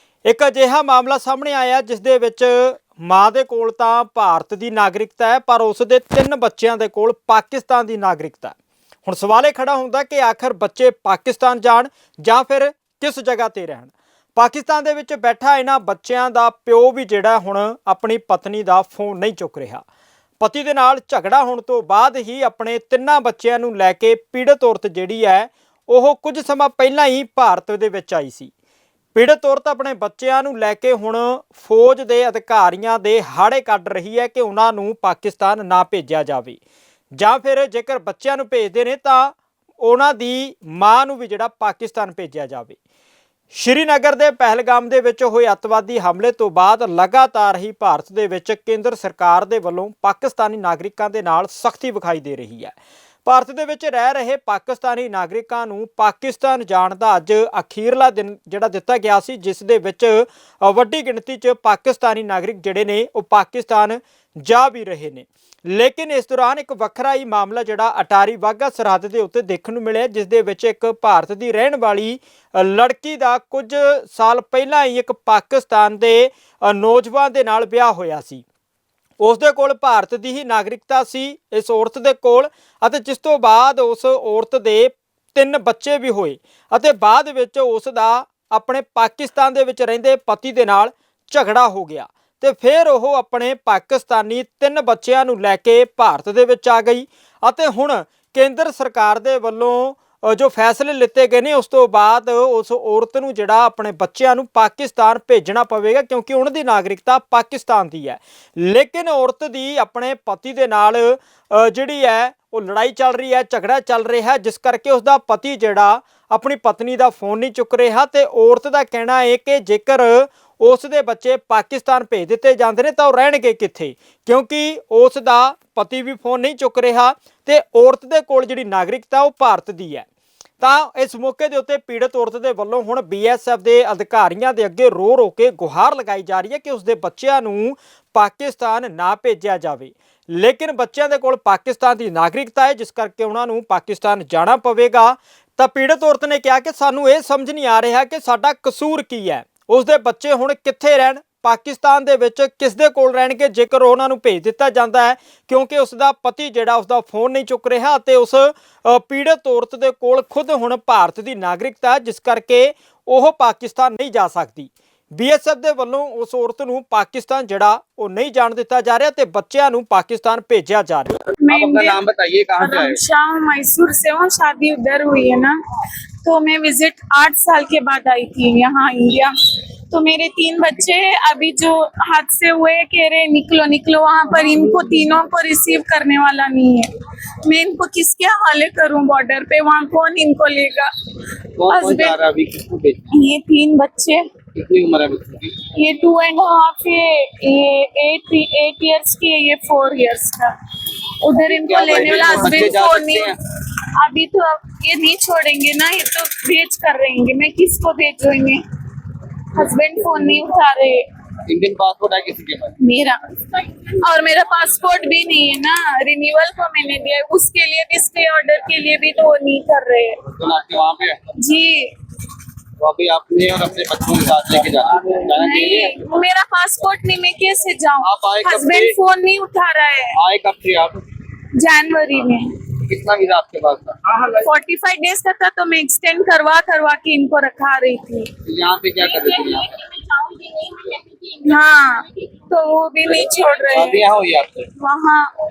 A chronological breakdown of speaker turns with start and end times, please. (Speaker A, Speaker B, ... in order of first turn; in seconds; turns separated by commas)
Speaker A: 0.2-19.8, Speaker A: 20.4-28.5, Speaker A: 29.1-36.6, Speaker A: 37.2-42.8, Speaker A: 43.5-78.4, Speaker A: 79.2-130.1, Speaker A: 130.6-171.2, Speaker B: 171.4-172.0, Speaker C: 171.5-173.0, Speaker B: 172.6-175.6, Speaker B: 176.2-179.3, Speaker B: 179.9-186.9, Speaker B: 187.4-190.9, Speaker C: 191.6-193.0, Speaker B: 191.7-192.2, Speaker B: 193.1-194.2, Speaker C: 194.5-195.6, Speaker B: 195.7-200.5, Speaker B: 201.2-208.6, Speaker C: 201.4-203.4, Speaker B: 209.5-211.1, Speaker C: 211.4-212.7, Speaker B: 212.8-220.2, Speaker C: 220.3-221.2, Speaker B: 221.4-221.9, Speaker C: 222.8-226.0, Speaker B: 225.3-230.2, Speaker C: 228.0-229.0, Speaker C: 230.2-231.0, Speaker B: 231.5-232.6, Speaker C: 232.8-234.2, Speaker B: 234.3-238.3, Speaker C: 238.4-239.7, Speaker B: 239.0-244.1, Speaker C: 243.7-244.7, Speaker B: 244.8-245.3